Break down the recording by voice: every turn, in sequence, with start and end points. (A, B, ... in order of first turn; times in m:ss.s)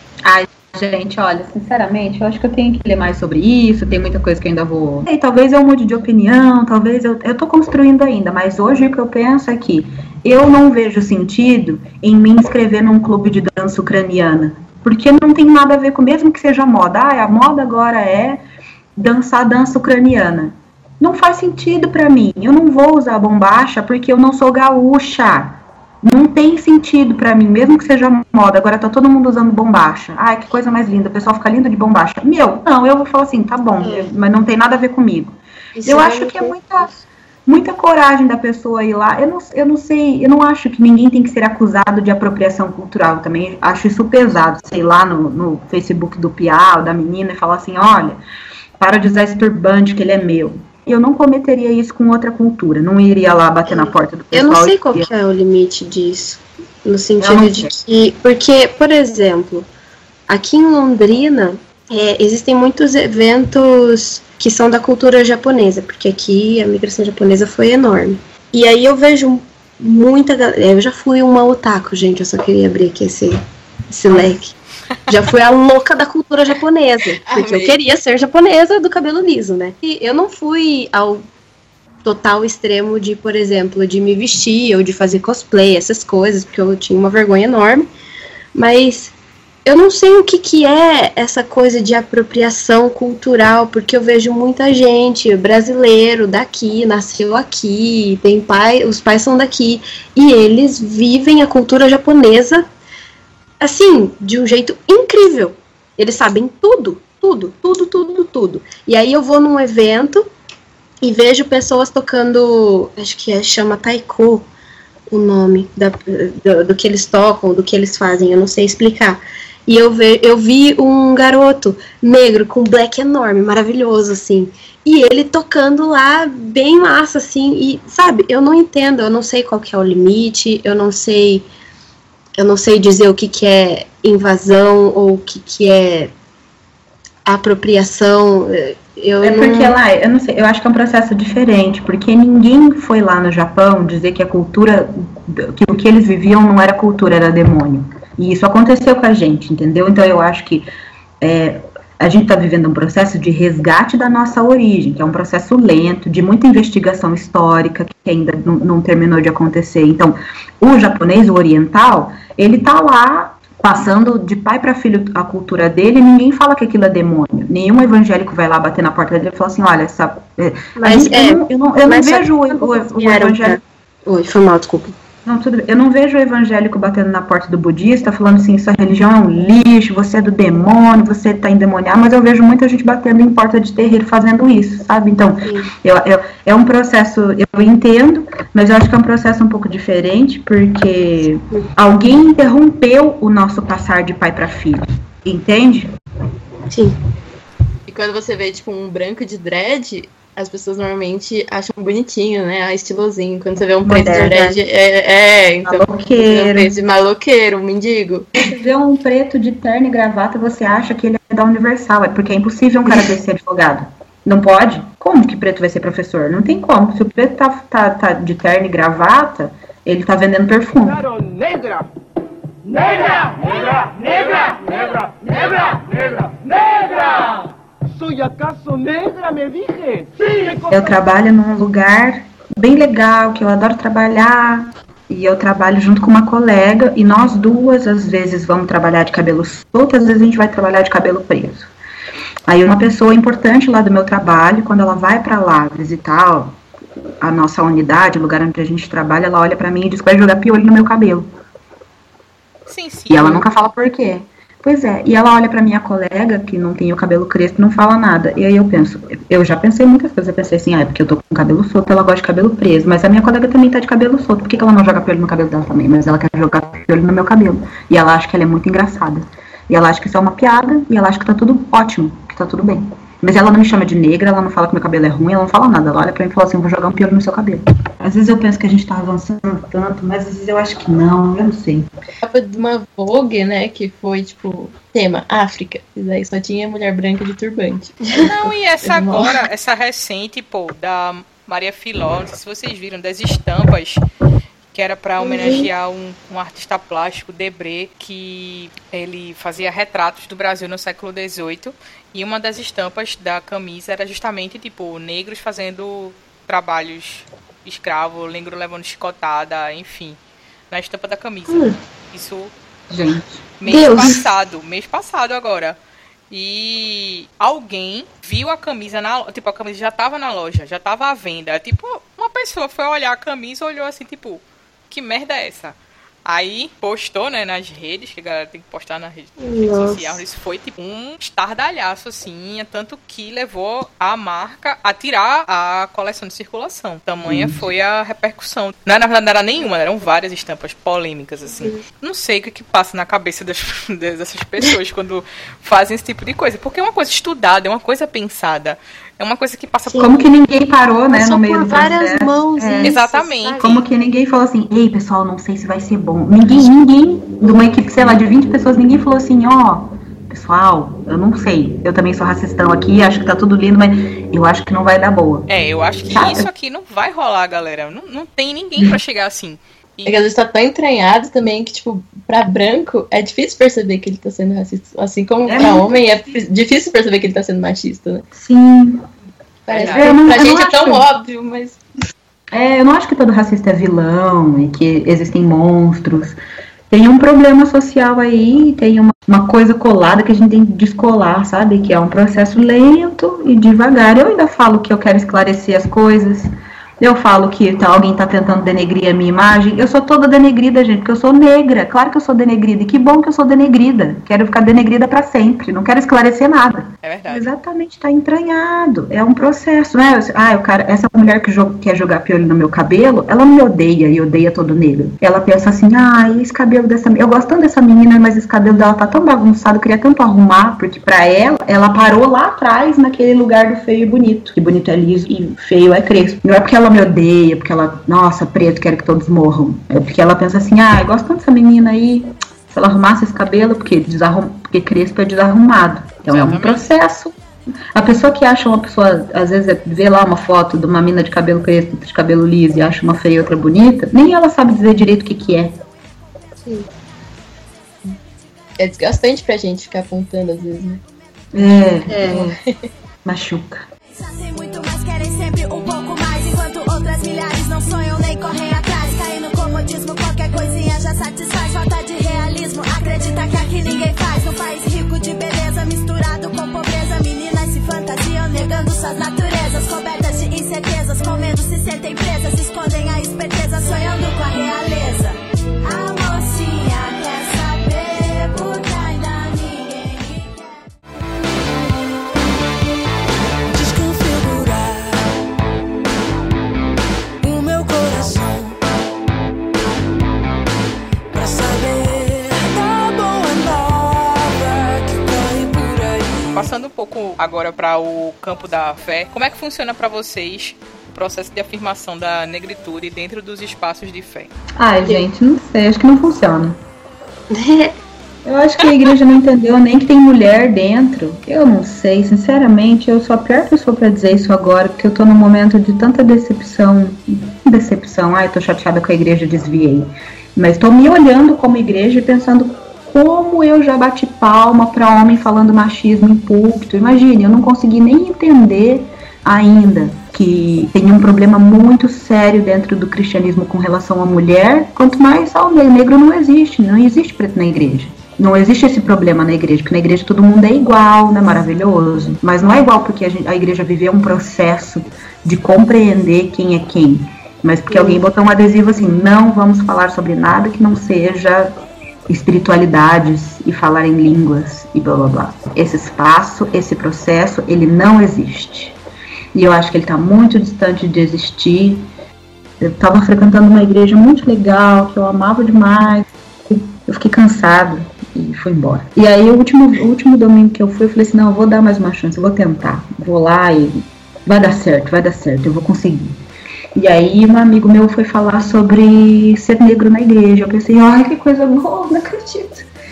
0:00.2-0:18.4 A
0:19.0-0:36.9 A
0:33.8-0:34.1 B
0:35.8-0:37.0 B
0:37.5-0:48.2 A
0:48.8-0:55.1 A
0:53.7-0:59.7 B
0:57.2-0:57.7 A
1:00.3-1:14.5 B
1:15.1-1:21.2 B
1:17.3-1:17.8 C
1:22.0-1:27.9 B
1:28.6-1:29.1 B
1:29.7-1:42.7 B
1:43.6-1:50.3 B
1:51.0-1:54.5 B
1:55.1-2:11.5 B
2:12.4-2:16.1 B
2:17.3-2:19.8 B
2:19.2-2:30.7 A
2:31.2-2:53.6 A
2:50.8-2:55.0 B
2:55.2-3:15.9 A
3:05.4-3:05.7 B
3:16.7-3:17.0 B
3:17.9-3:28.3 C
3:23.9-3:24.3 A
3:23.9-3:24.5 B
3:25.6-3:26.8 A
3:28.4-3:41.0 A
3:40.8-3:41.9 D
3:42.6-3:51.0 D
3:50.7-4:01.7 A
4:02.5-4:06.6 A
4:07.2-4:11.3 A
4:12.7-4:13.5 E
4:13.1-4:41.9 A
4:42.2-4:48.3 C
4:48.2-4:54.0 E
4:48.8-4:49.4 C
4:54.7-5:10.2 E
4:55.2-4:55.7 B
5:10.7-5:12.5 E
5:11.5-5:11.7 B
5:12.9-5:13.4 A
5:13.6-5:15.8 E
5:13.7-5:14.2 B
5:16.3-5:50.3 E
5:29.4-5:30.2 B
5:37.2-5:37.7 A
5:50.0-5:53.0 A
5:51.1-5:53.8 B
5:52.8-5:53.8 E
5:53.6-6:05.5 A
6:05.5-6:10.3 E
6:06.1-6:06.5 A
6:10.1-6:18.3 C
6:15.4-6:15.9 A
6:18.3-6:19.1 A
6:19.7-6:21.8 C
6:19.7-6:20.2 E
6:19.9-6:21.1 A
6:22.5-6:26.4 A
6:26.9-7:17.4 A
6:47.0-6:47.5 E
7:16.2-7:16.9 E
7:17.9-7:25.8 A
7:28.8-7:31.0 C
7:31.5-7:32.6 A
7:32.1-7:32.5 B
7:33.2-7:33.9 A
7:34.1-8:00.8 F
8:16.5-8:24.5 E
8:24.8-8:26.8 A
8:27.5-8:28.0 B
8:28.4-9:11.8 A
9:07.9-9:08.2 B
9:12.3-9:19.0 A
9:19.5-9:22.1 A
9:22.8-9:36.4 A
9:37.0-9:42.9 A